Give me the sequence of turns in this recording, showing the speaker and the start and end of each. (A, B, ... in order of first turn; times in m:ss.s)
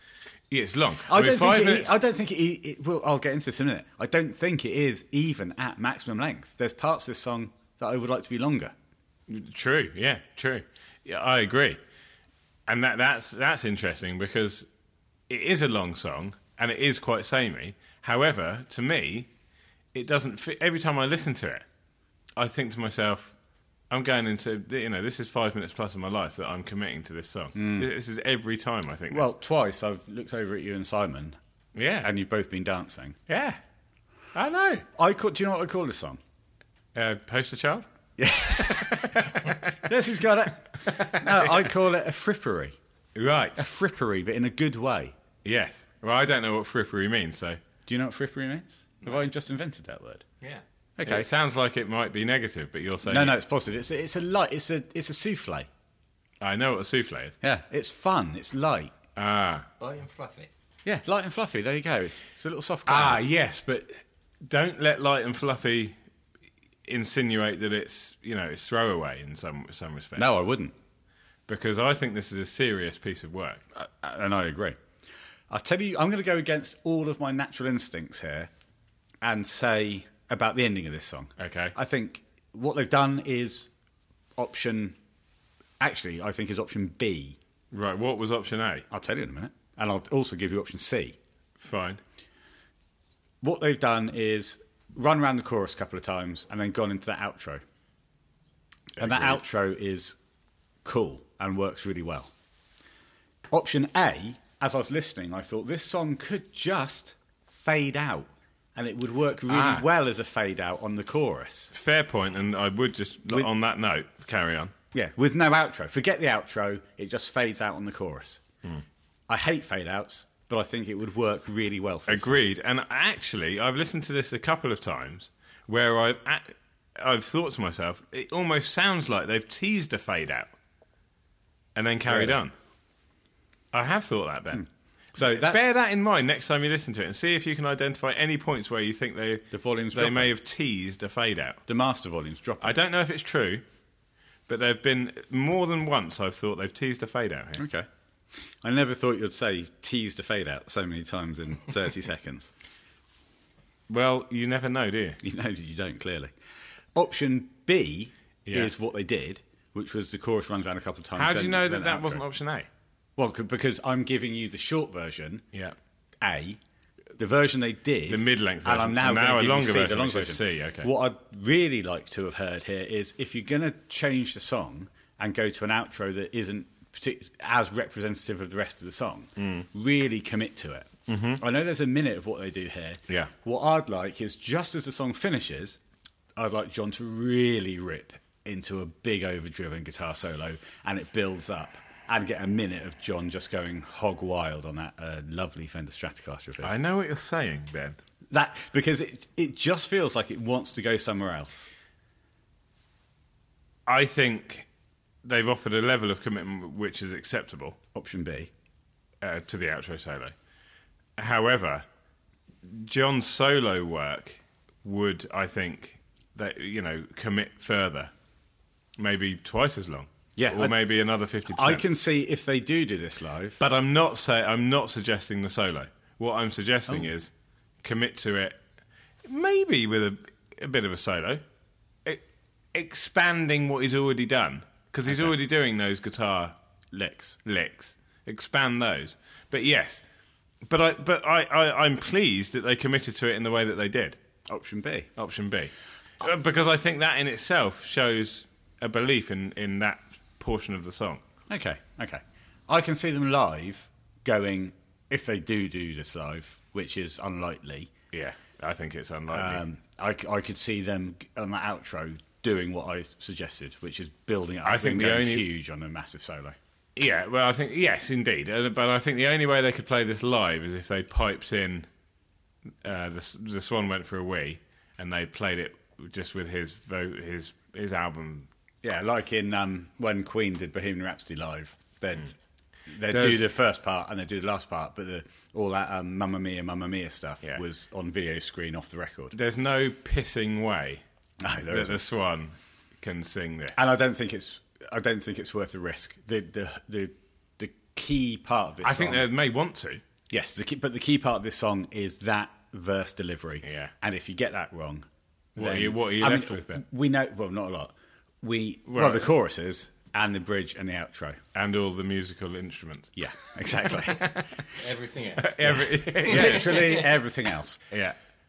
0:00.5-0:01.9 A
0:01.1-0:08.7 B
0:09.3-0:11.8 A
0:12.7-0:14.7 A
0:15.3-0:19.3 A
0:19.9-0:21.6 A
0:22.4-0:23.3 A
0:23.9-0:29.3 A
0:27.5-0:27.9 B
0:29.1-0:31.4 B
0:31.7-0:32.1 A
0:32.0-0:33.2 B
0:33.3-0:33.6 A
0:34.3-0:34.8 A
0:35.0-0:36.2 B
0:36.9-0:37.9 A
0:38.2-0:39.2 B
0:38.5-0:39.8 A
0:39.8-0:42.8 B
0:40.8-0:41.7 A
0:43.1-0:43.6 A
0:43.6-0:45.1 B
0:45.4-0:47.6 A
0:47.9-0:50.2 B
0:51.0-0:51.3 B
0:51.0-0:53.4 A
0:53.0-0:55.7 B
0:56.4-0:57.4 A
0:57.4-0:58.9 B
0:59.2-0:59.7 A
0:59.8-1:00.5 C
1:00.8-1:03.2 B
1:02.8-1:06.0 A
1:06.8-1:10.3 A
1:10.2-1:10.7 B
1:11.5-1:13.6 A
1:13.7-1:14.8 B
1:15.5-1:18.5 B
1:19.2-1:23.7 B
1:21.4-1:21.7 A
1:24.4-1:25.0 B
1:25.8-1:27.4 B
1:27.7-1:28.8 A
1:28.9-1:31.2 B
1:31.6-1:32.0 A
1:33.4-1:37.6 B
1:39.0-1:39.4 A
1:39.0-1:40.2 B
1:40.8-1:42.3 B
1:43.5-1:51.7 B
1:49.5-1:49.8 A
1:51.7-1:54.7 A
1:54.9-1:58.4 B
1:59.3-2:02.4 B
2:02.1-2:10.5 A
2:11.7-2:12.5 A
2:12.0-2:12.4 B
2:13.7-2:14.6 A
2:15.2-2:15.7 B
2:15.2-2:21.6 A
2:19.5-2:20.3 B
2:21.7-2:22.7 B
2:22.6-2:23.6 A
2:24.5-2:27.6 A
2:27.6-2:27.9 B
2:28.6-2:32.5 B
2:33.9-2:35.2 A
2:35.2-2:36.3 B
2:36.9-2:42.2 B
2:38.4-2:38.7 A
2:41.1-2:42.7 A
2:43.2-2:45.4 B
2:46.2-2:46.6 B
2:47.2-3:05.8 B
2:48.1-2:50.9 A
2:59.4-2:59.7 A
3:01.1-3:01.4 A
3:06.4-3:16.8 B
3:16.6-3:18.0 A
3:18.3-3:21.7 B
3:23.9-3:24.7 A
3:25.2-3:27.8 A
3:27.9-3:28.5 B
3:29.2-3:30.3 A
3:31.2-3:31.8 A
3:32.6-3:38.1 A
3:39.0-3:41.8 A
3:40.4-3:40.8 B
3:41.5-3:43.6 B
3:43.6-3:47.3 A
3:47.8-3:48.6 A
3:49.2-3:51.4 A
3:52.0-3:56.6 A
3:55.1-3:55.3 B
3:56.9-3:57.4 B
3:57.4-4:00.0 A
4:00.6-4:04.2 A
4:04.5-4:05.1 B
4:05.2-4:11.2 A
4:11.5-4:17.9 B
4:18.1-4:19.6 A
4:19.3-4:26.6 B
4:24.6-4:25.5 A
4:27.0-4:31.9 A
4:32.8-4:38.5 A
4:38.8-4:42.3 B
4:42.9-4:49.3 B
4:43.1-4:43.5 A
4:49.3-4:51.0 A
4:51.4-4:52.0 B
4:51.7-4:53.8 A
4:53.7-4:59.3 B
4:58.8-5:00.0 A
5:00.3-5:11.4 B
5:03.6-5:03.9 A
5:05.6-5:06.8 A
5:08.9-5:09.3 A
5:11.5-5:13.1 A
5:13.2-5:14.2 B
5:13.9-5:14.6 A
5:14.7-5:15.6 C
5:15.4-5:17.0 A
5:15.6-5:17.8 B
5:16.2-5:17.0 C
5:17.9-5:18.2 A